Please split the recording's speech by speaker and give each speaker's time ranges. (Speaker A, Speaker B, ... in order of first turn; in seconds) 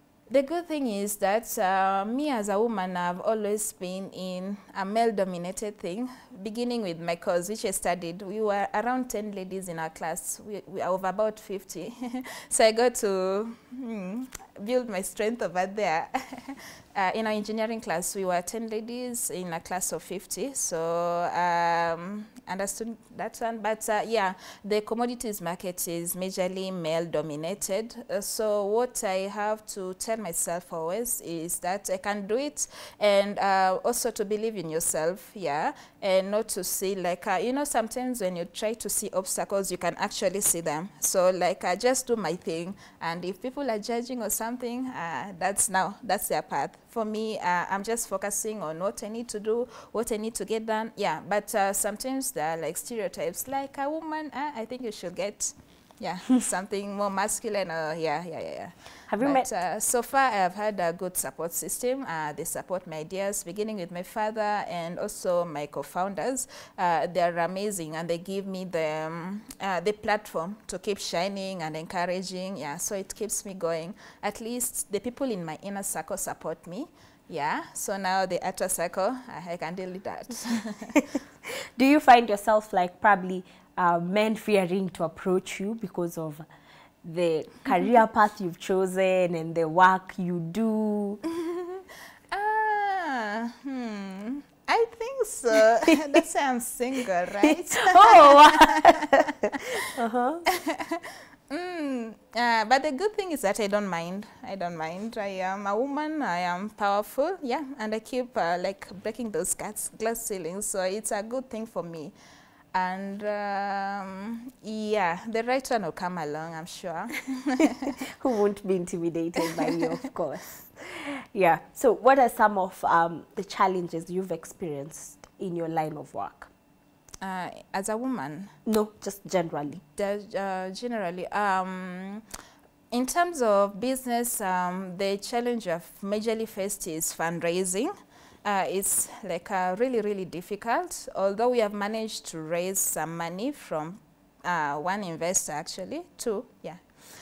Speaker A: 0.3-81.0, 91.4-99.8, 100.5-112.1, 112.7-118.0, 119.6-119.9, 127.2-128.5, 129.9-132.2, 132.9-137.9, 138.4-146.8
Speaker B: 59.1-59.5, 81.8-86.4, 87.0-91.2, 97.4-100.4, 118.0-126.5, 128.7-129.8